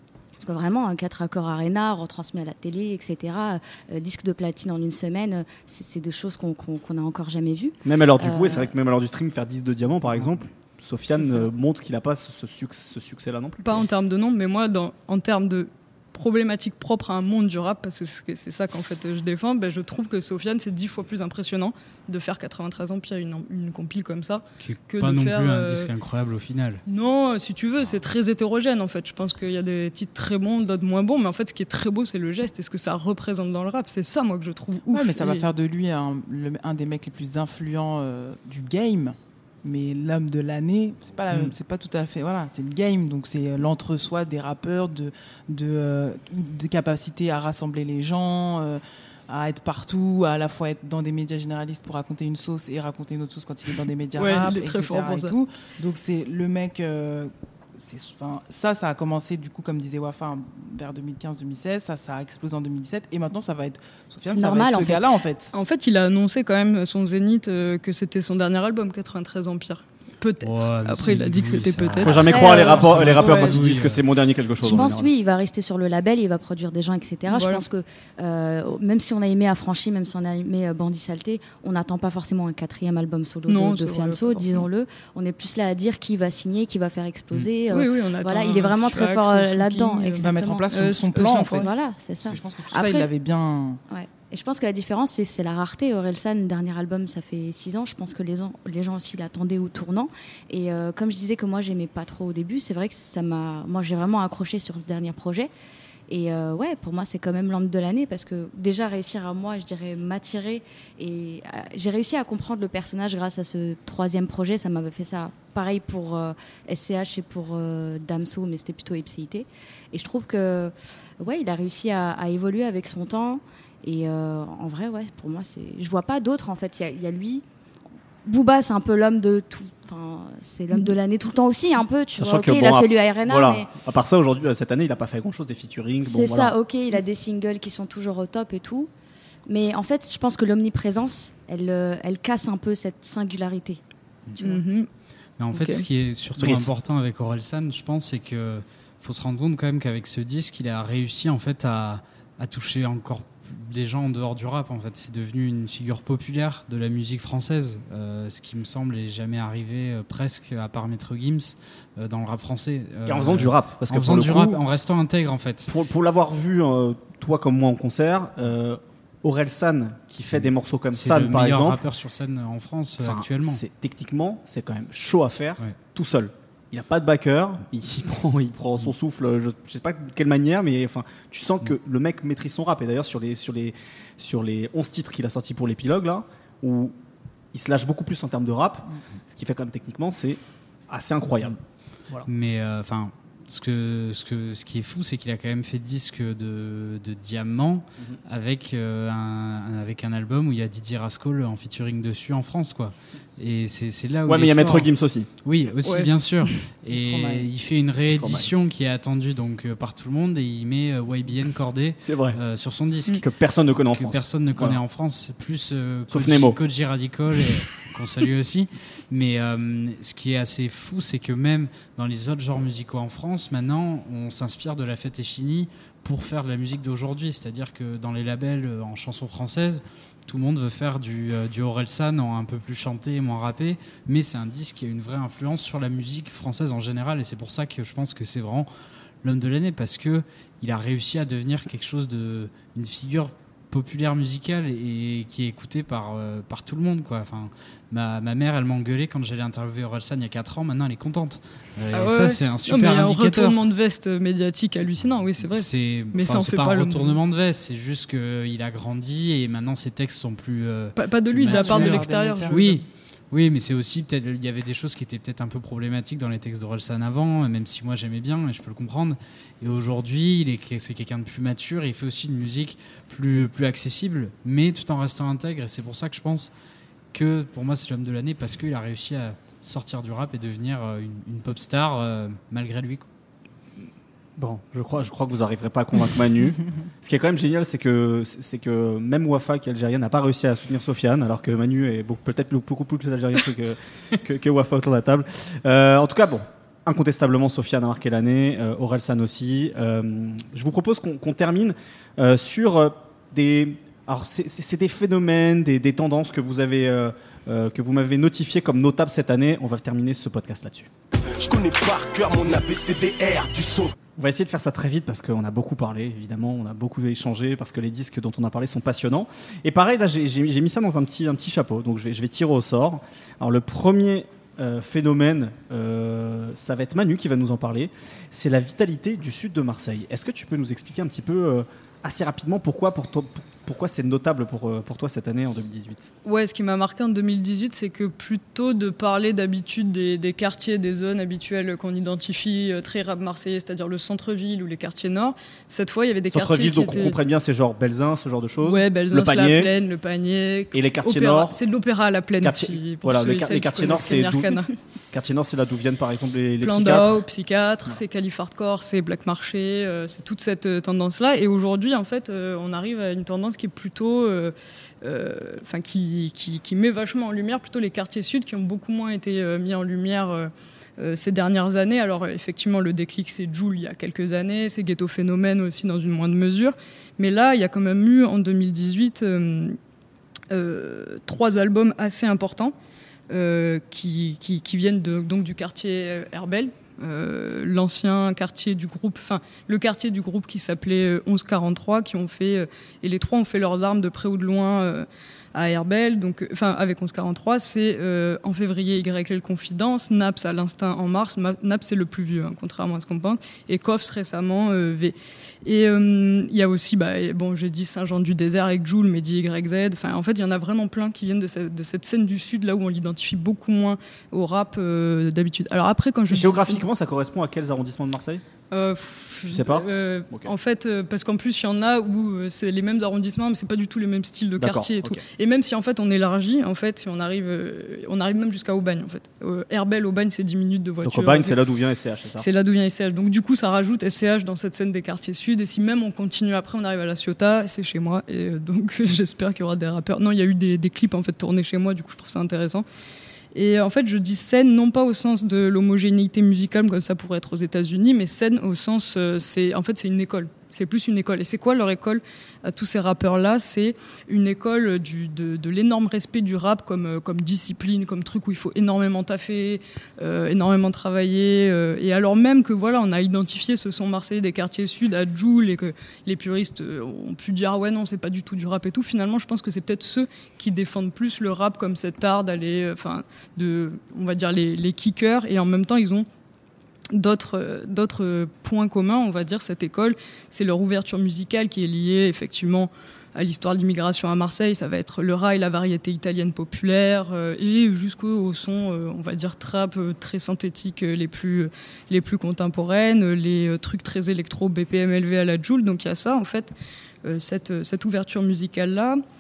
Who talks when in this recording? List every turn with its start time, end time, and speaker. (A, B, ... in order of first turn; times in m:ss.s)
0:00.4-0:08.7 A
0:07.8-0:13.9 B
0:13.6-0:25.9 C
0:24.6-0:26.8 D
0:26.9-0:35.5 C
0:34.9-1:05.5 E
0:54.2-0:55.4 C
1:04.2-1:05.1 A
1:05.5-1:13.6 C
1:10.4-1:14.0 D
1:12.0-1:15.1 B
1:12.2-1:13.5 A
1:14.6-1:33.1 A
1:17.3-1:17.6 C
1:23.5-1:24.7 C
1:27.7-1:31.5 C
1:30.2-1:31.8 E
1:32.3-1:33.8 E
1:33.9-1:45.5 A
1:46.1-2:07.4 A
2:08.2-2:13.7 A
2:12.2-2:16.6 B
2:16.0-2:18.9 A
2:19.5-2:23.8 A
2:24.3-2:24.6 D
2:24.4-2:24.9 C
2:25.4-2:45.7 D
2:25.5-2:25.8 C
2:26.4-2:26.7 B
2:43.1-2:44.6 B
2:45.7-2:51.8 B
2:50.2-2:53.6 D
2:53.0-3:07.0 B
3:07.5-3:12.3 B
3:12.3-3:24.9 D
3:24.3-3:25.3 B
3:25.4-3:33.2 D
3:25.8-3:26.7 C
3:26.9-3:27.5 E
3:28.1-3:28.5 B
3:32.0-3:32.4 B
3:33.2-3:34.8 B
3:33.9-3:58.7 D
3:36.1-3:36.6 B
3:59.2-4:13.6 D
4:11.9-4:17.2 C
4:15.0-4:36.5 D
4:21.0-4:22.8 C
4:21.4-4:22.6 E
4:37.1-4:43.0 D
4:44.4-5:10.9 B
5:11.2-5:13.9 F
5:14.2-5:36.1 B
5:36.2-5:47.2 C
5:46.3-5:49.7 B
5:48.6-5:54.8 C
5:50.7-5:51.6 B
5:52.4-5:54.6 B
5:55.1-5:57.2 B
5:56.6-6:19.8 C
6:20.5-6:22.8 C
6:23.3-6:56.8 C
6:56.3-6:58.4 B
6:58.7-7:11.6 C
6:59.5-7:00.5 B
7:04.6-7:05.2 B
7:11.0-7:12.5 B
7:12.4-7:22.8 C
7:23.5-7:56.3 C
7:57.1-8:16.7 C
8:17.2-8:19.2 C